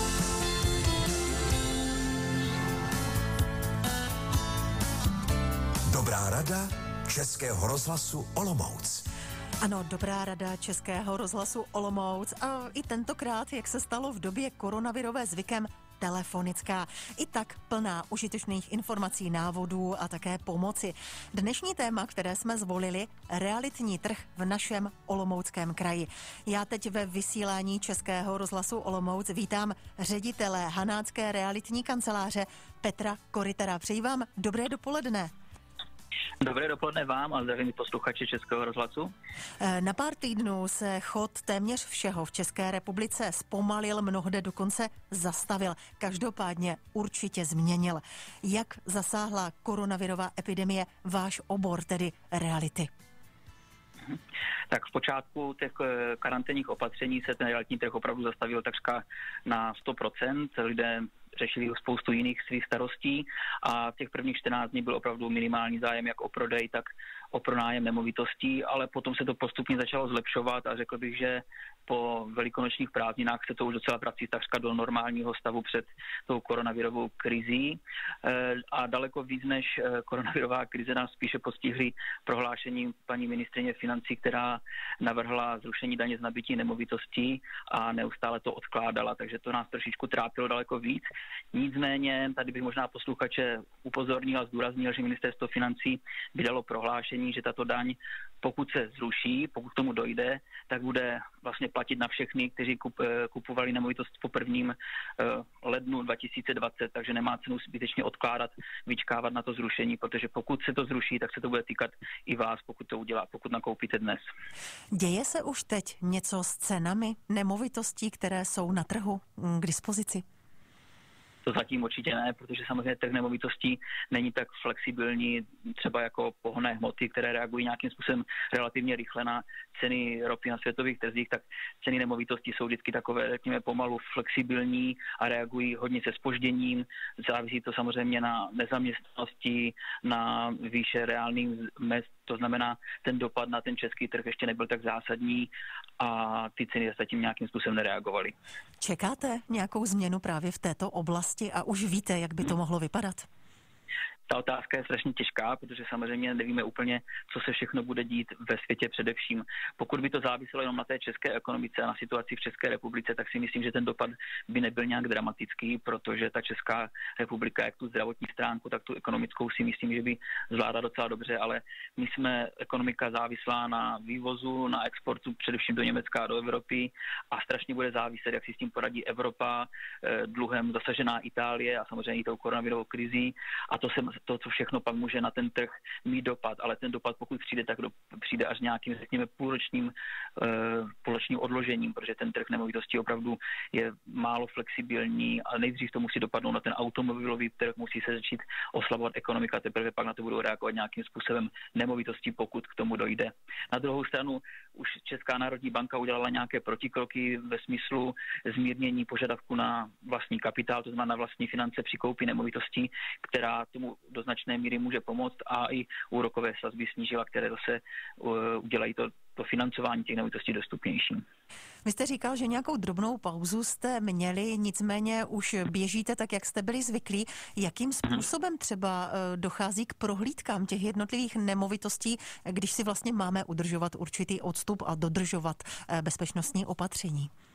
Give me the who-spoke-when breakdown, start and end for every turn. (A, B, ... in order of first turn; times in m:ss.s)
0:05.9-0:09.1 A
0:09.6-0:35.3 B
0:36.4-0:39.1 C
0:39.6-0:52.9 B
0:54.0-1:54.3 C
1:54.9-2:00.2 B
2:01.4-2:28.4 C
2:28.8-2:33.3 B
2:34.3-3:41.2 C
3:41.8-3:57.3 B